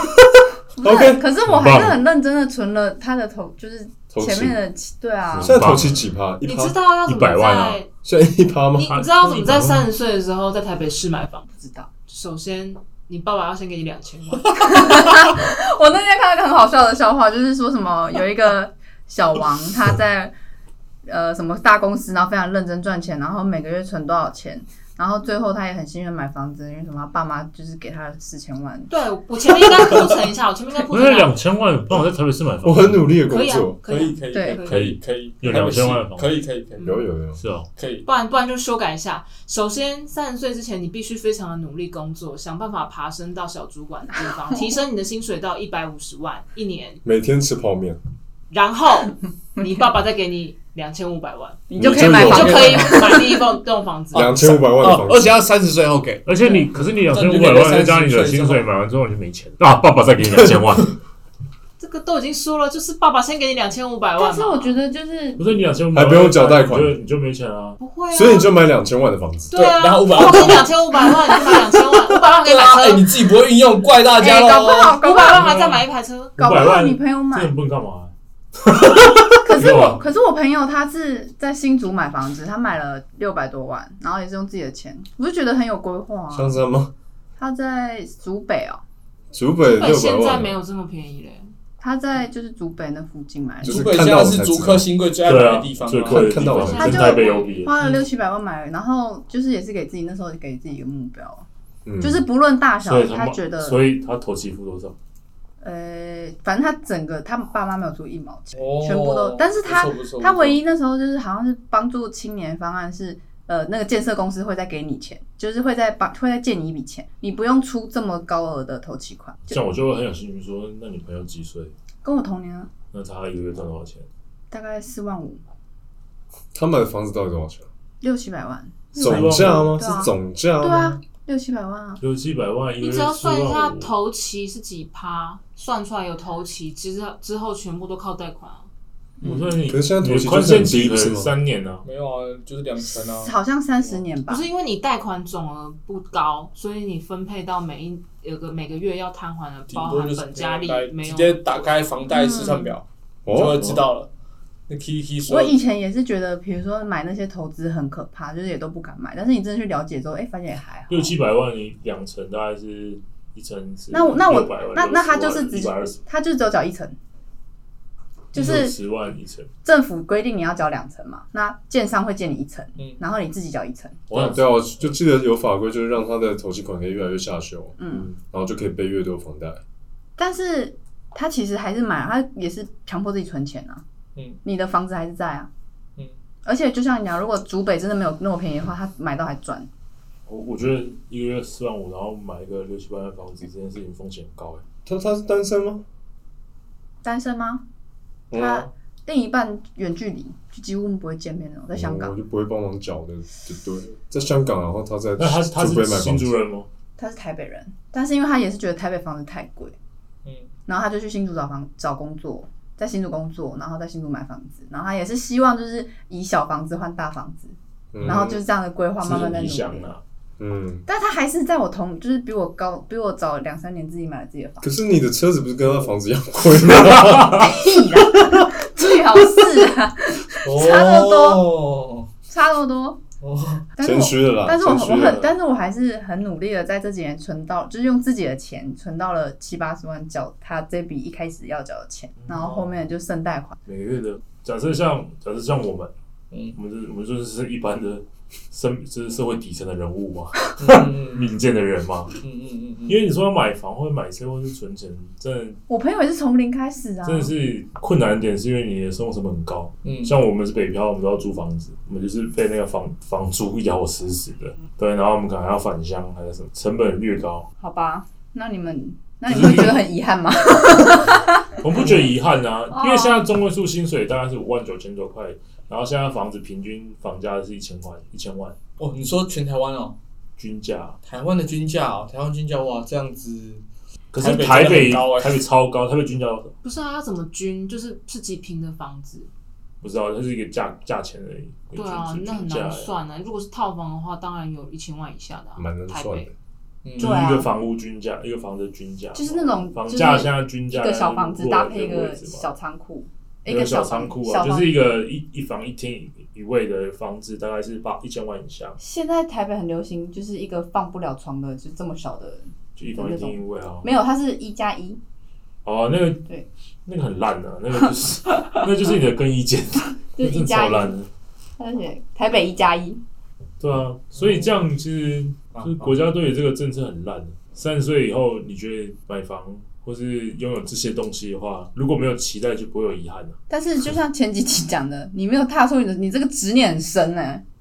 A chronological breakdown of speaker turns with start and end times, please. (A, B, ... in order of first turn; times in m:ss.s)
0:00.8-0:05.6 A
0:00.8-0:01.2 B
0:01.4-0:02.0 C
0:04.1-0:04.6 B
0:05.3-0:06.0 C
0:05.4-0:06.8 B
0:06.4-0:07.9 D
0:07.1-0:07.8 C
0:08.0-0:09.0 B
0:08.8-0:11.5 D
0:08.9-0:09.9 C
0:11.6-0:11.9 A
0:12.1-0:15.1 D
0:14.6-0:20.3 A
0:21.1-0:28.9 A
0:28.9-0:31.4 D
0:30.9-0:33.1 C
0:32.6-0:33.8 B
0:33.3-0:34.9 D
0:33.8-0:37.0 E
0:34.3-0:34.6 A
0:34.6-0:36.4 C
0:36.8-0:37.4 B
0:37.4-0:37.7 C
0:37.8-0:38.1 E
0:38.0-0:47.0 D
0:47.0-0:48.0 B
0:48.5-0:54.4 D
0:51.7-0:53.4 A
0:51.8-0:52.6 B
0:51.9-0:53.2 E
0:54.1-0:58.7 E
0:54.1-0:55.4 B
0:56.3-1:01.0 C
1:01.8-1:04.8 D
1:04.2-1:05.5 A
1:05.4-1:07.8 C
1:05.9-1:07.0 B
1:07.8-1:08.5 D
1:08.1-1:09.5 B
1:09.5-1:13.1 D
1:09.5-1:10.7 E
1:12.1-1:15.5 E
1:14.2-1:15.6 A
1:15.0-1:16.4 D
1:16.4-1:17.5 A
1:16.4-1:18.1 C
1:18.6-1:20.0 C
1:19.4-1:26.6 A
1:26.3-1:26.9 B
1:27.4-1:28.8 A
1:29.3-1:30.6 B
1:29.6-1:31.5 D
1:31.8-1:34.2 A
1:33.6-1:34.9 B
1:33.6-1:36.4 E
1:35.2-1:37.8 C
1:36.1-1:37.2 B
1:36.5-1:37.7 D
1:36.7-1:41.4 A
1:41.9-1:42.2 B
1:42.0-1:43.8 A
1:42.8-1:45.0 C
1:45.6-1:59.6 A
1:48.6-1:50.6 E
1:59.5-2:01.7 C
2:02.0-2:02.7 A
2:02.9-2:04.1 C
2:04.5-2:05.4 A
2:06.5-2:07.7 B
2:08.0-2:12.0 A
2:09.0-2:09.8 C
2:09.0-2:11.0 B
2:12.0-2:13.9 C
2:12.8-2:18.7 D
2:19.2-2:19.6 A
2:19.2-2:21.8 C
2:19.6-2:21.3 B
2:21.8-2:24.0 E
2:23.0-2:24.5 A
2:24.3-2:31.6 D
2:29.7-2:34.1 E
2:32.1-2:32.8 A
2:33.3-2:33.8 B
2:34.7-2:35.6 E
2:35.3-2:41.1 A
2:40.9-2:46.0 C
2:43.9-2:47.0 A
2:48.3-2:48.8 A
2:48.3-2:49.5 C
2:49.6-2:54.0 A
2:54.1-2:54.9 C
2:54.1-2:59.6 B
2:57.8-2:58.1 A
3:00.2-3:03.8 A
3:04.4-3:05.5 A
3:06.4-3:09.7 A
3:10.3-3:14.6 C
3:14.9-3:15.8 B
3:17.0-3:17.6 A
3:18.3-3:18.7 B
3:18.3-3:22.2 A
3:21.7-3:26.3 B
3:25.2-3:26.7 C
3:27.0-3:29.8 A
3:30.2-3:30.5 E
3:30.7-3:39.9 A
3:37.9-3:38.4 B
3:39.0-3:40.0 C
3:40.4-3:40.8 B
3:40.9-3:44.7 A
3:44.6-3:47.6 B
3:47.0-3:47.4 C
3:47.3-3:51.5 A
3:50.4-3:52.1 E
3:52.3-3:53.0 A
3:53.2-3:53.7 E
3:53.8-4:03.6 A
3:53.8-3:55.2 B
3:55.0-3:55.3 C
4:02.2-4:02.7 C
4:03.7-4:05.9 C
4:06.5-4:12.2 C
4:10.6-4:11.2 E
4:12.2-4:13.0 E
4:12.9-4:15.6 C
4:15.7-4:17.4 A
4:17.0-4:27.5 C
4:19.8-4:20.1 E
4:27.6-4:31.6 A
4:29.3-4:29.9 C
4:31.6-4:38.6 C
4:32.7-4:33.2 A
4:38.8-4:40.0 E
4:40.4-4:41.0 C
4:41.0-4:43.6 E
4:44.1-4:46.5 C
4:44.2-4:45.4 E
4:46.6-4:49.3 D
4:49.8-4:52.9 C
4:51.7-4:56.3 D
4:55.6-4:56.3 B
4:56.8-4:57.3 E
4:57.0-4:57.5 A
4:57.0-5:02.5 C
4:59.2-5:04.8 A
5:03.5-5:08.8 C
5:08.8-5:15.0 A
5:12.8-5:13.9 C
5:15.6-5:16.3 C
5:16.9-5:21.1 C
5:20.2-5:21.0 A
5:21.6-5:23.0 A
5:23.6-5:33.4 C
5:25.5-5:26.0 E
5:33.5-5:37.4 A